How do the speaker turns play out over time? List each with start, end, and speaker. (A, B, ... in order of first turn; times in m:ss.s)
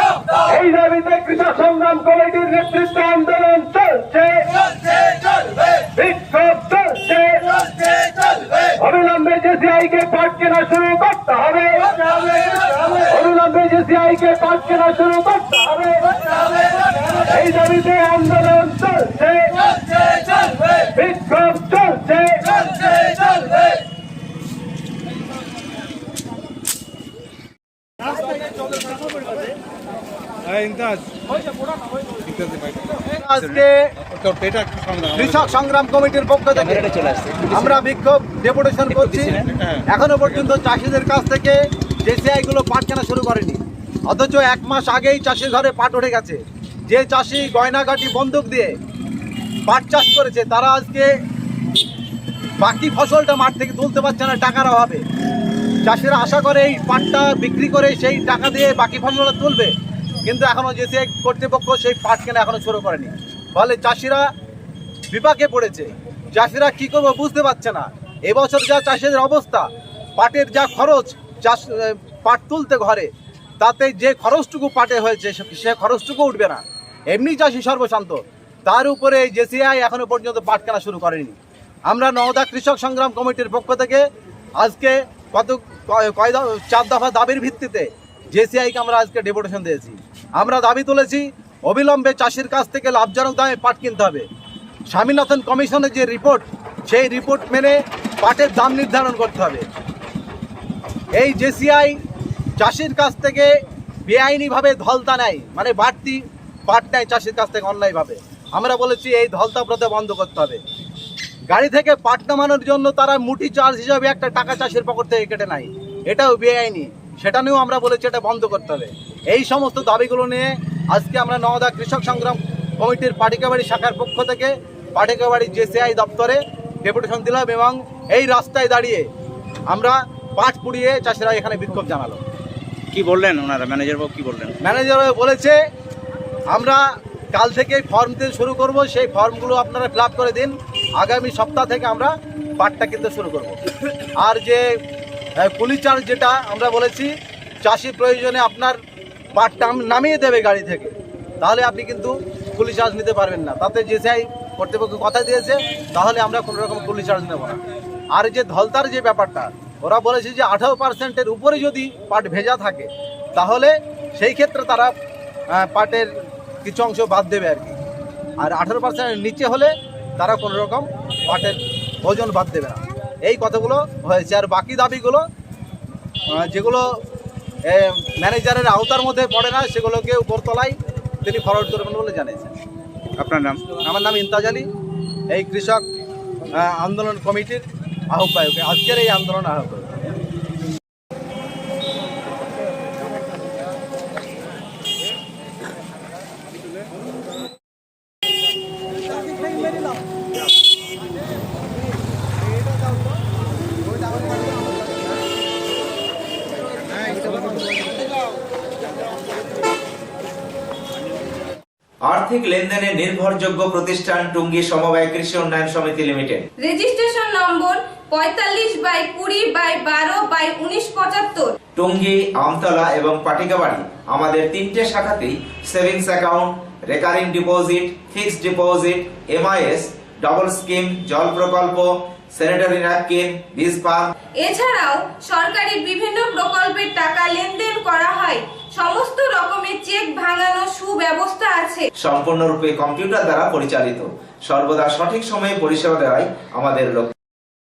0:00.3-0:07.7 A
0:08.6-0:23.2 A
0:33.0-0:33.9 B
0:34.2-0:35.0 C
0:35.0-0:36.9 B
0:36.7-0:37.6 C
0:37.5-0:39.4 B
0:39.1-0:39.5 C
0:39.9-0:48.7 B
0:49.7-0:51.1 B
0:52.6-0:55.0 B
0:55.8-0:59.7 B
1:00.2-1:04.3 B
1:05.1-1:13.1 B
1:13.6-1:21.4 B
1:21.9-1:24.0 B
1:24.6-1:34.2 B
1:34.9-1:39.6 B
1:41.2-1:42.0 B
1:42.6-1:50.6 B
1:51.5-2:09.0 B
2:09.7-2:12.2 B
2:12.9-2:14.6 C
2:14.6-2:15.6 B
2:16.5-2:16.8 B
2:17.3-2:23.6 B
2:24.2-2:24.8 B
2:25.4-2:27.1 B
2:27.6-2:28.8 B
2:29.3-2:37.6 B
2:38.1-2:44.9 B
2:45.5-2:46.1 B
2:46.6-2:47.8 B
2:48.4-2:55.2 B
2:56.3-2:56.9 B
2:57.7-3:02.5 B
3:03.2-3:03.8 C
3:03.8-3:04.7 B
3:05.3-3:05.8 B
3:06.5-3:09.9 B
3:32.1-3:36.4 D
3:36.6-3:41.5 E
3:41.8-3:54.1 D
3:54.4-4:01.8 E
4:02.0-4:07.1 D